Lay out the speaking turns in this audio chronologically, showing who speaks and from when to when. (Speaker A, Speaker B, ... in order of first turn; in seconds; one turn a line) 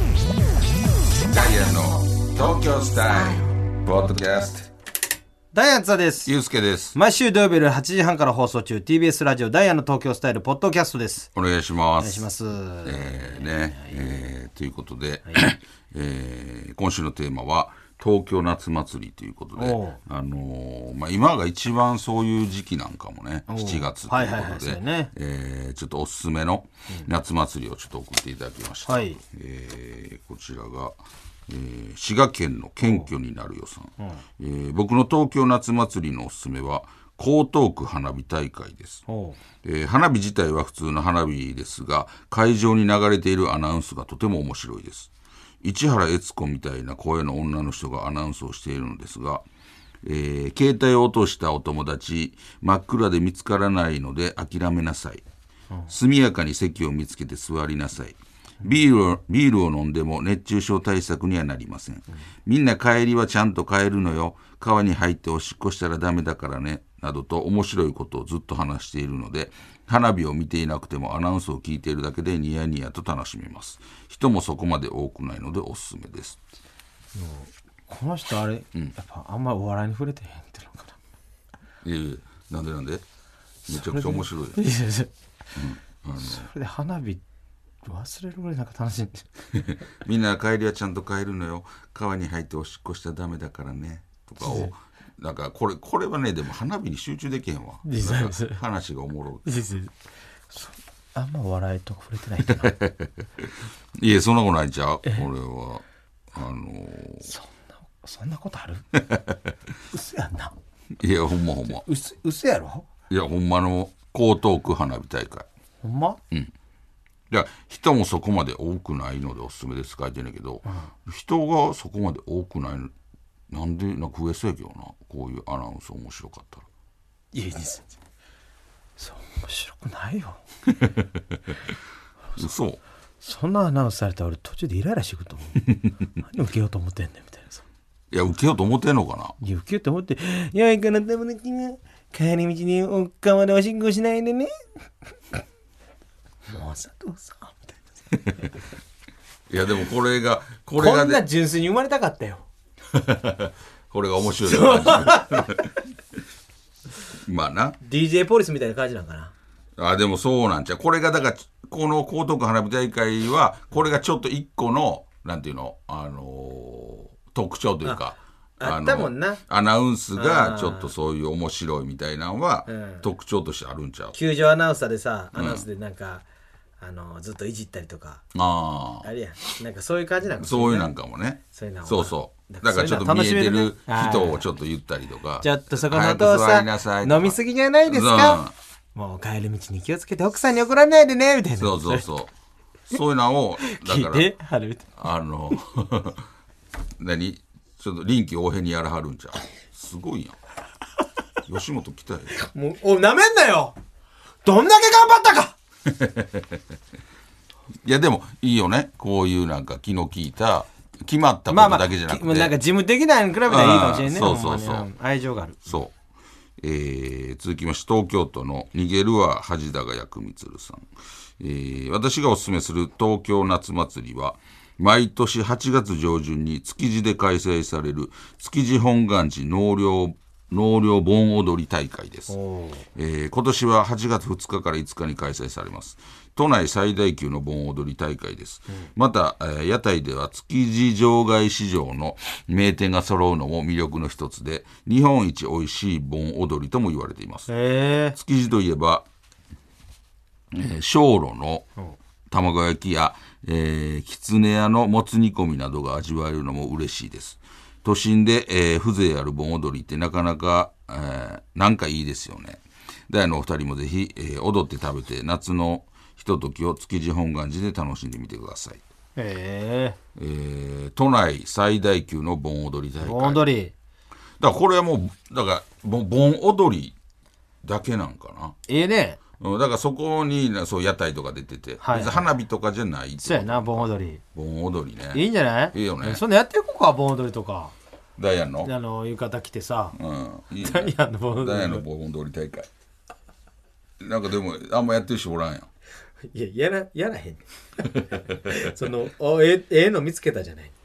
Speaker A: 1.2-4.7
Speaker B: 5.5-6.3
Speaker A: 6.2-7.0
Speaker B: 6.9-11.3
Speaker A: 11.3-12.3
Speaker B: 12.0-14.3
Speaker A: 12.8-31.0
Speaker B: 19.6-20.0
Speaker B: 23.5-25.1
Speaker B: 28.9-29.2
Speaker A: 31.5-39.0
Speaker B: 32.8-33.1
Speaker B: 39.1-39.4
Speaker A: 39.6-45.1
Speaker A: 45.6-49.4
Speaker A: 50.0-55.2
Speaker A: 55.9-76.4
Speaker B: 77.1-81.0
Speaker A: 81.8-83.0
Speaker A: 83.7-84.6
Speaker B: 83.7-85.1
Speaker A: 85.5-86.5
Speaker B: 86.2-87.2
Speaker B: 87.8-89.3
Speaker A: 89.5-99.6
Speaker B: 94.4-94.7
Speaker B: 97.8-98.6
Speaker B: 99.4-99.9
Speaker B: 100.5-102.7
Speaker A: 102.4-107.3
Speaker B: 107.2-108.8
Speaker A: 108.9-109.5
Speaker B: 109.9-110.5
Speaker A: 111.0-111.8
Speaker B: 111.7-112.9
Speaker A: 113.1-115.5
Speaker B: 115.8-116.2
Speaker A: 117.3-122.9
Speaker B: 120.7-120.9
Speaker A: 123.5-126.7
Speaker B: 127.3-127.9
Speaker B: 129.0-130.4
Speaker A: 130.7-131.6
Speaker A: 132.4-132.8
Speaker B: 133.2-137.6
Speaker A: 138.1-139.3
Speaker B: 139.4-144.5
Speaker B: 146.5-147.8
Speaker A: 149.5-151.2
Speaker B: 150.8-152.5
Speaker A: 152.9-155.7
Speaker B: 154.4-155.7
Speaker A: 157.1-157.8
Speaker B: 157.8-159.3
Speaker A: 159.8-174.2
Speaker B: 168.6-169.4
Speaker B: 170.1-170.9
Speaker B: 172.7-173.1
Speaker B: 174.1-176.2
Speaker A: 175.3-175.6
Speaker B: 176.8-178.2
Speaker A: 178.3-179.1
Speaker B: 179.0-180.9
Speaker A: 180.4-188.5
Speaker B: 181.5-184.4
Speaker B: 185.4-188.4
Speaker B: 188.9-192.1
Speaker A: 191.6-192.3
Speaker A: 192.9-194.3
Speaker B: 193.6-194.9
Speaker A: 195.0-196.2
Speaker A: 197.0-200.3
Speaker A: 201.5-202.3
Speaker B: 202.3-203.8
Speaker B: 204.4-205.5
Speaker A: 205.8-206.6
Speaker A: 207.8-212.5
Speaker B: 211.5-215.7
Speaker A: 213.4-214.9
Speaker A: 215.7-215.9
Speaker A: 216.6-232.3
Speaker B: 232.3-232.8
Speaker A: 232.9-247.5
Speaker B: 247.5-248.2
Speaker A: 248.1-249.1
Speaker A: 250.5-251.7
Speaker A: 252.3-268.8
Speaker B: 269.1-270.0
Speaker A: 270.1-273.4
Speaker B: 273.0-273.7
Speaker A: 274.4-276.9
Speaker A: 277.6-278.6
Speaker B: 278.7-279.2
Speaker A: 279.4-286.2
Speaker B: 281.8-282.3
Speaker B: 283.2-284.2
Speaker B: 285.1-287.7
Speaker A: 288.2-288.7
Speaker B: 288.6-290.0
Speaker A: 289.9-292.7
Speaker B: 290.6-291.8
Speaker A: 294.0-295.7
Speaker B: 296.2-300.7
Speaker A: 298.1-298.7